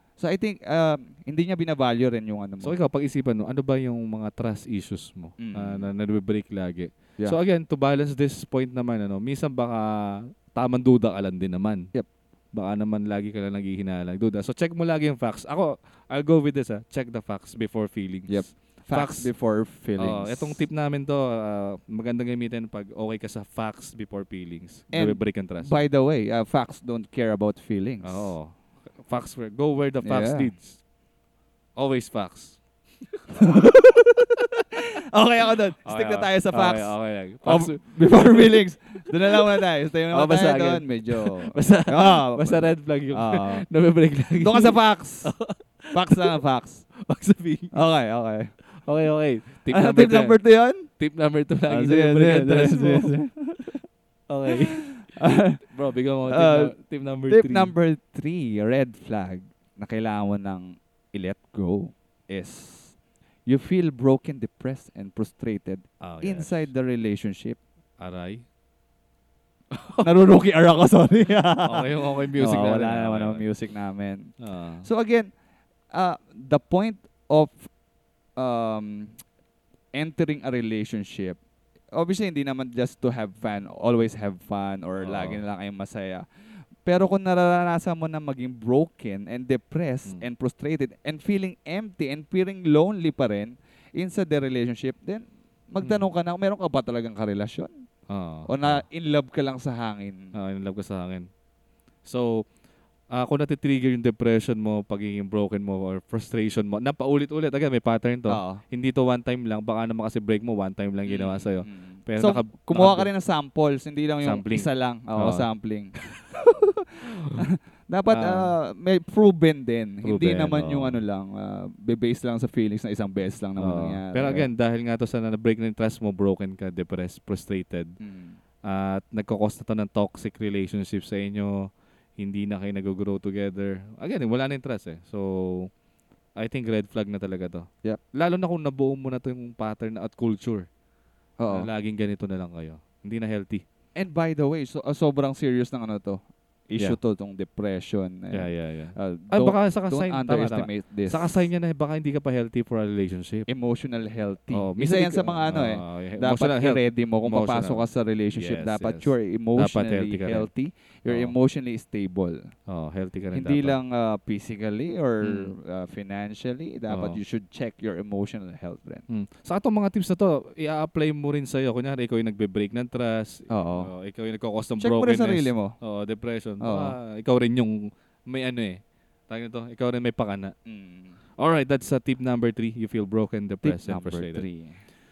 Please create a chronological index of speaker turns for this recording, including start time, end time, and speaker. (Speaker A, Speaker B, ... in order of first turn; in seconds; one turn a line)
Speaker A: 0.2-2.8
Speaker B: 2.6-11.9
Speaker A: 5.4-5.9
Speaker B: 12.5-19.3
Speaker A: 18.3-20.6
Speaker B: 20.0-25.8
Speaker A: 24.9-28.3
Speaker B: 28.0-30.8
Speaker A: 30.0-30.5
Speaker B: 31.8-33.6
Speaker A: 33.4-34.1
Speaker A: 34.8-43.7
Speaker B: 35.9-38.6
Speaker B: 40.1-46.4
Speaker A: 44.4-45.4
Speaker A: 45.9-47.0
Speaker B: 47.0-47.8
Speaker A: 47.7-48.6
Speaker B: 48.8-53.2
Speaker A: 49.7-50.9
Speaker A: 51.7-53.8
Speaker B: 54.3-57.7
Speaker A: 55.1-55.6
Speaker A: 56.3-56.7
Speaker A: 57.3-67.6
Speaker B: 66.0-66.7
Speaker B: 68.0-68.4
Speaker B: 69.7-70.1
Speaker A: 70.0-75.3
Speaker B: 71.6-73.5
Speaker B: 74.4-74.9
Speaker A: 75.9-77.7
Speaker A: 78.4-79.2
Speaker A: 79.9-81.4
Speaker A: 81.9-97.8
Speaker B: 85.0-85.4
Speaker B: 98.1-98.8
Speaker A: 98.5-100.3
Speaker B: 100.3-101.3
Speaker B: 102.0-102.5
Speaker B: 103.1-113.1
Speaker A: 108.3-108.6
Speaker A: 111.1-115.9
Speaker B: 114.2-115.5
Speaker A: 117.4-124.5
Speaker B: 118.1-118.5
Speaker B: 120.0-121.0
Speaker B: 123.6-128.0
Speaker A: 128.0-128.4
Speaker B: 128.6-135.7
Speaker B: 136.4-140.7
Speaker A: 141.4-141.7
Speaker B: 141.5-143.6
Speaker A: 144.0-151.4
Speaker B: 148.3-153.5
Speaker A: 153.5-162.4
Speaker B: 154.5-160.5
Speaker B: 161.1-161.3
Speaker B: 162.7-163.8
Speaker A: 163.3-169.0
Speaker B: 165.2-165.5
Speaker B: 166.9-167.2
Speaker B: 169.1-180.5
Speaker A: 173.5-173.9
Speaker A: 174.8-175.7
Speaker A: 176.6-177.0
Speaker A: 180.7-181.2
Speaker B: 181.4-184.5
Speaker A: 183.6-184.8